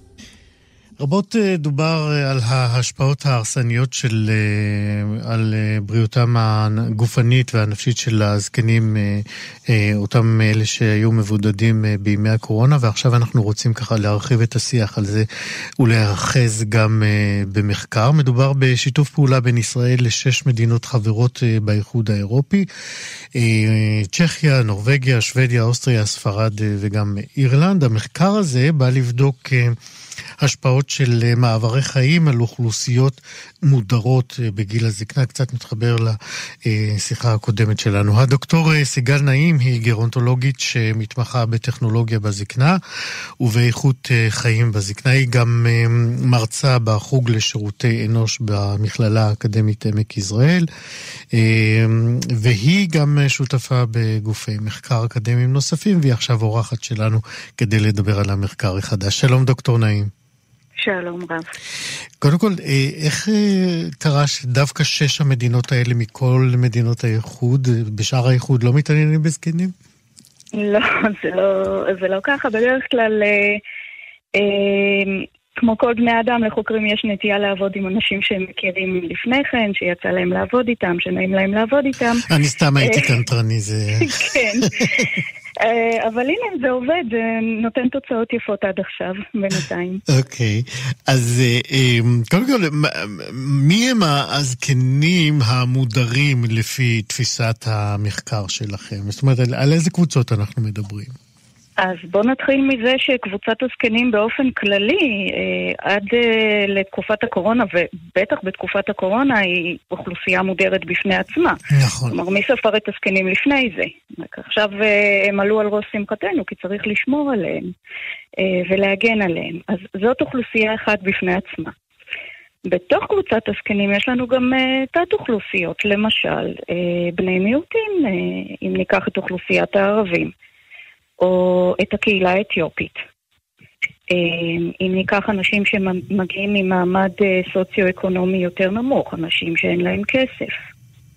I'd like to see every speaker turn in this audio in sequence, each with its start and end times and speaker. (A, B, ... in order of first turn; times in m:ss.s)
0:01.0-0:15.3 A
0:15.8-0:22.7 A
0:23.3-0:29.8 A
0:30.4-0:42.8 A
0:43.4-0:50.7 A
0:51.3-1:00.1 A
1:00.8-1:01.5 B
1:02.2-1:09.7 A
1:10.6-1:13.6 B
1:14.4-1:22.2 B
1:22.3-1:25.0 A
1:22.8-1:23.2 B
1:24.0-1:24.8 B
1:25.6-1:30.0 B
1:30.1-1:41.1 A
1:41.8-1:51.6 B
1:51.7-1:52.2 A
1:52.1-1:57.7 B
1:58.4-2:01.7 B
2:02.7-2:10.3 B
2:11.2-2:13.0 B
2:14.1-2:20.6 B